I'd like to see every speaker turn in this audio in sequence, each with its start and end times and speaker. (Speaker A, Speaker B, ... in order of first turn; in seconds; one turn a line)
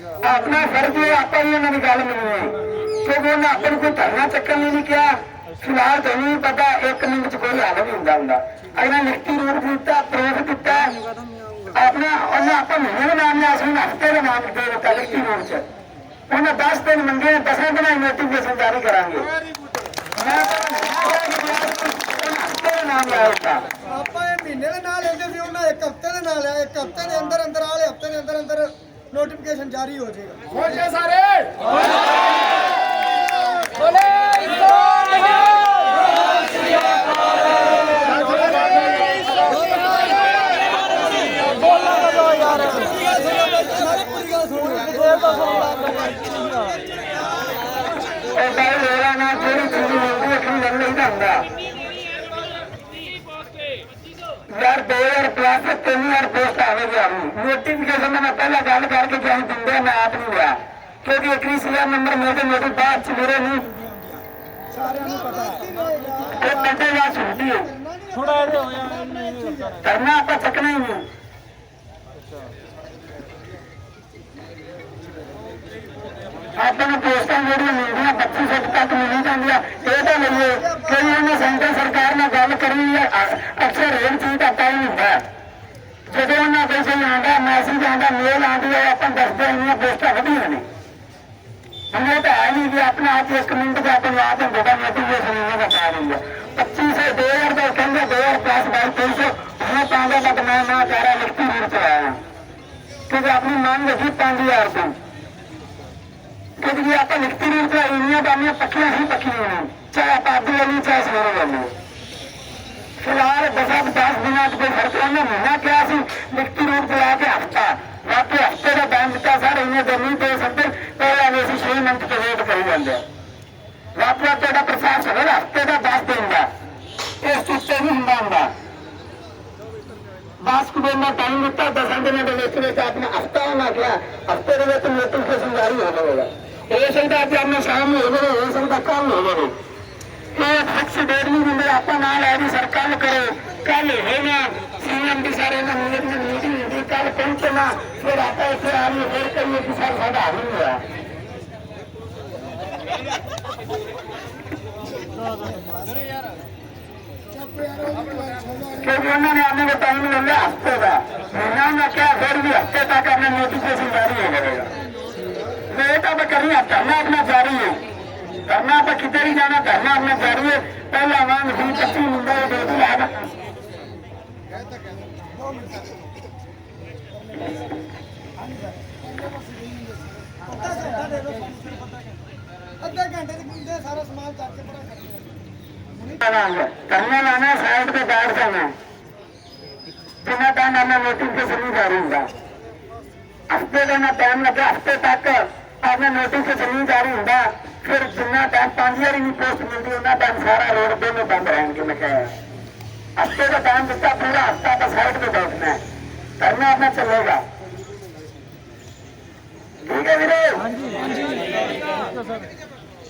Speaker A: 0.2-11.0
Speaker A: 11.7-15.7
Speaker A: 16.3-19.3
Speaker A: 20.1-23.7
Speaker B: 23.9-31.1
Speaker B: 38.1-40.0
Speaker B: 41.7-46.8
Speaker A: 48.3-51.5
Speaker A: 54.5-63.7
Speaker B: 64.7-66.5
Speaker A: 66.3-67.7
Speaker B: 67.6-69.8
Speaker A: 69.8-71.1
Speaker A: 76.5-85.2
Speaker B: 80.5-81.4
Speaker A: 86.1-90.7
Speaker A: 91.9-102.2
Speaker A: 103.1-105.0
Speaker A: 106.6-111.7
Speaker A: 113.0-123.0
Speaker A: 124.0-126.5
Speaker A: 127.2-128.5
Speaker A: 130.4-139.5
Speaker A: 140.4-150.8
Speaker B: 157.6-158.4
Speaker A: 158.8-164.7
Speaker A: 165.7-167.8
Speaker A: 168.5-173.3
Speaker B: 180.5-181.6
Speaker B: 182.8-185.2
Speaker A: 186.1-188.8
Speaker A: 190.2-192.3
Speaker A: 193.5-202.3
Speaker A: 203.2-205.8
Speaker A: 206.4-207.4
Speaker A: 209.9-210.8